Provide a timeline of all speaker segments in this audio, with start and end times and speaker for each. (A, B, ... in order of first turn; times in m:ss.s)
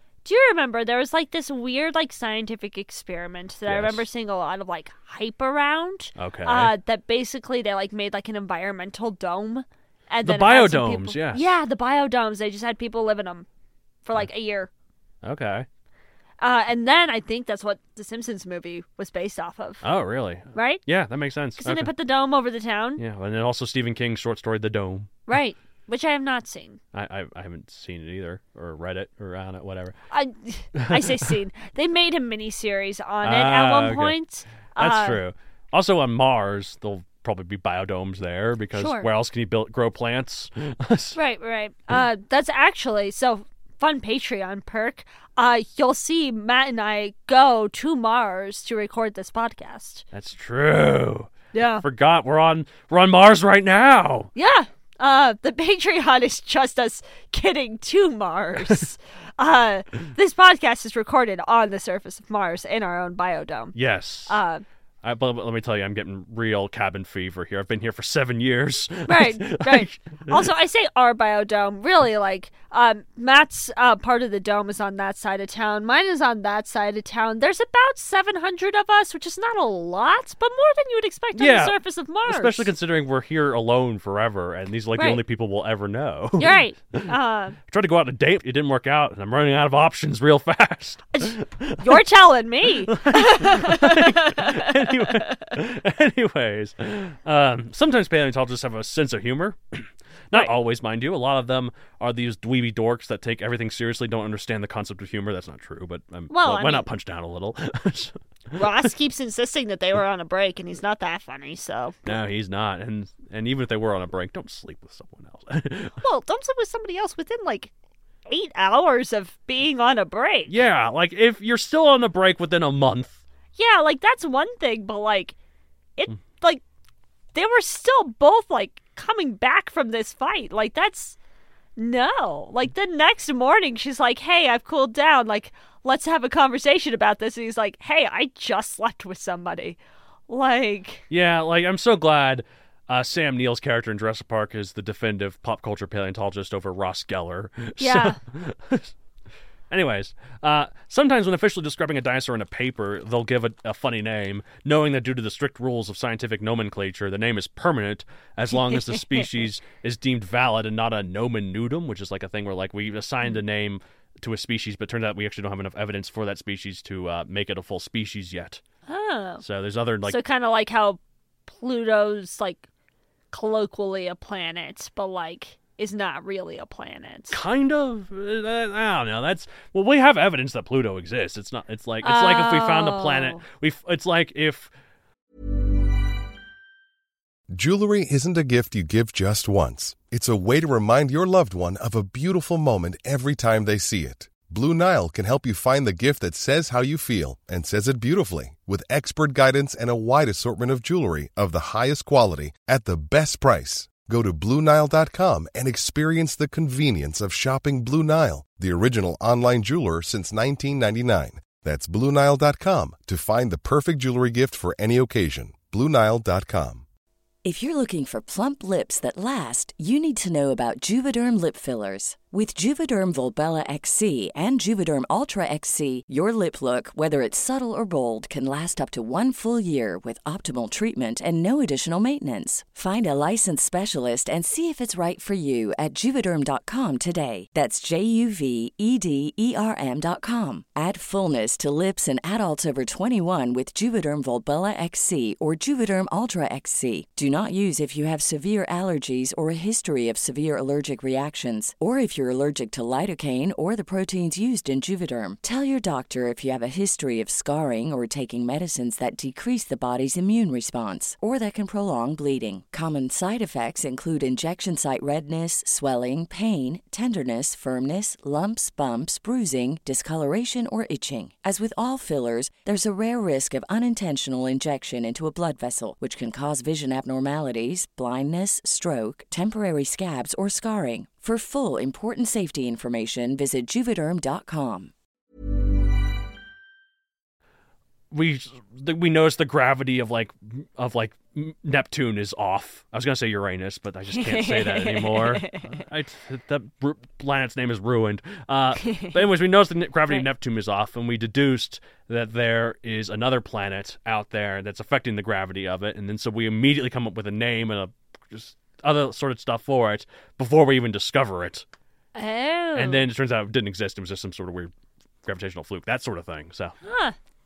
0:00.2-0:13.4 A
0:03.6-0:04.0 B
0:06.2-0:06.7 B
0:10.2-0:11.5 B
0:14.0-0:14.7 A
0:15.2-0:15.7 B
0:16.4-0:19.8 A
0:19.8-0:21.9 B
0:20.5-0:20.8 A
0:21.6-0:23.0 A
0:23.0-0:25.2 B
0:25.3-0:26.8 A
0:26.9-0:30.0 B
0:30.1-0:35.2 A
0:30.8-0:31.3 B
0:33.2-0:34.2 B
0:34.8-0:41.2 B
0:38.7-0:39.1 A
0:41.2-0:50.0 A
0:50.1-0:54.3 B
0:51.5-0:51.8 A
0:54.3-1:03.7 A
1:03.7-1:04.4 B
1:04.3-1:04.6 A
1:05.0-1:10.5 B
1:09.1-1:22.7 A
1:21.3-1:32.0 B
1:24.9-1:25.2 A
1:26.4-1:27.6 A
1:31.1-1:35.5 A
1:32.9-1:48.9 B
1:46.3-1:46.8 A
1:48.5-1:52.1 A
1:52.0-1:56.0 B
1:56.0-1:57.7 A
1:58.3-2:00.5 A
2:00.5-2:03.2 B
2:03.6-2:05.3 A
2:06.0-2:06.6 A
2:07.3-2:11.2 A
2:11.8-2:19.8 A
2:20.3-2:21.0 A
2:21.1-2:28.9 B
2:27.8-2:28.2 A
2:29.7-2:48.6 B
2:38.7-2:39.2 A
2:48.9-2:49.4 A
2:49.4-2:50.2 B
2:50.0-2:52.6 A
2:53.3-2:57.4 A
2:57.3-3:04.7 B
3:02.0-3:03.4 A
3:07.5-3:36.8 C
3:37.4-4:44.9 D
4:48.1-5:11.6 B
4:54.1-4:55.8 A
4:58.8-4:59.2 A
5:12.1-5:13.0 A
5:12.7-5:14.7 B
5:15.2-5:16.8 B
5:16.8-5:17.2 A